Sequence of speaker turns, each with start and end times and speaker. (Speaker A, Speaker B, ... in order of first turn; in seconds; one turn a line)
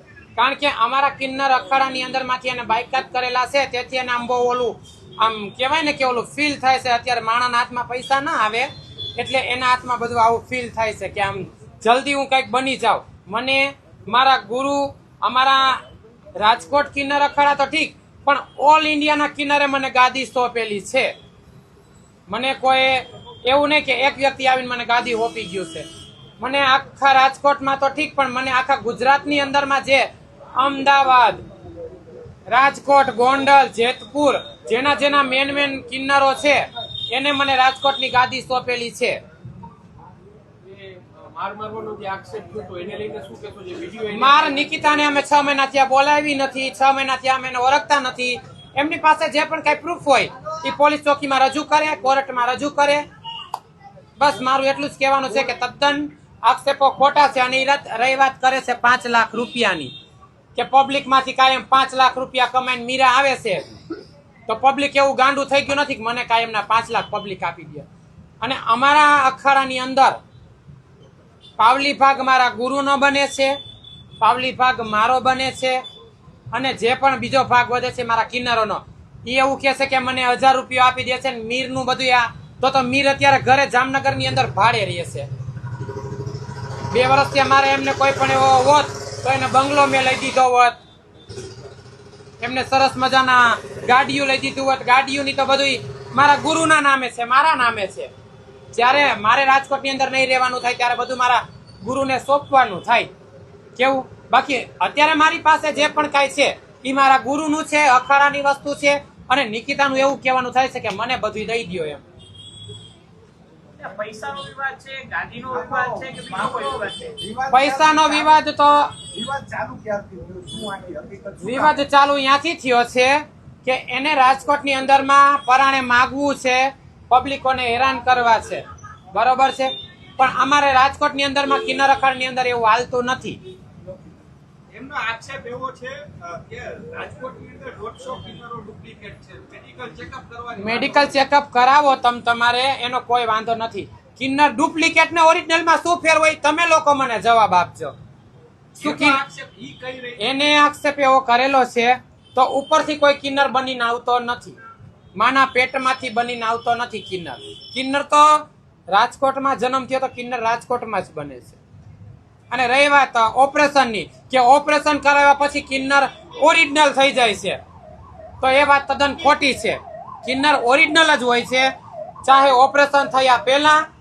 Speaker A: 0.4-15.8
Speaker A: 16.4-21.1
Speaker A: 22.3-25.8
Speaker A: 26.4-31.4
Speaker A: 32.5-39.2
Speaker B: 40.6-44.4
Speaker A: 44.1-53.0
Speaker A: 54.2-59.9
Speaker A: 60.5-63.8
Speaker A: 64.5-67.9
Speaker A: 68.4-70.2
Speaker A: 71.6-73.5
Speaker A: 74.2-75.8
Speaker A: 76.5-85.3
Speaker A: 86.9-90.8
Speaker A: 92.4-98.1
Speaker A: 98.7-103.1
Speaker A: 103.8-112.0
Speaker C: 113.8-117.2
Speaker D: 115.5-118.3
Speaker B: 115.6-116.8
Speaker A: 117.5-119.0
Speaker D: 119.1-121.7
Speaker A: 121.4-133.4
Speaker B: 134.7-141.1
Speaker A: 140.6-147.9
Speaker B: 148.8-150.2
Speaker A: 148.8-149.2
Speaker A: 150.2-154.6
Speaker A: 155.2-161.6
Speaker A: 162.5-167.6
Speaker A: 168.4-171.7
Speaker A: 172.2-173.8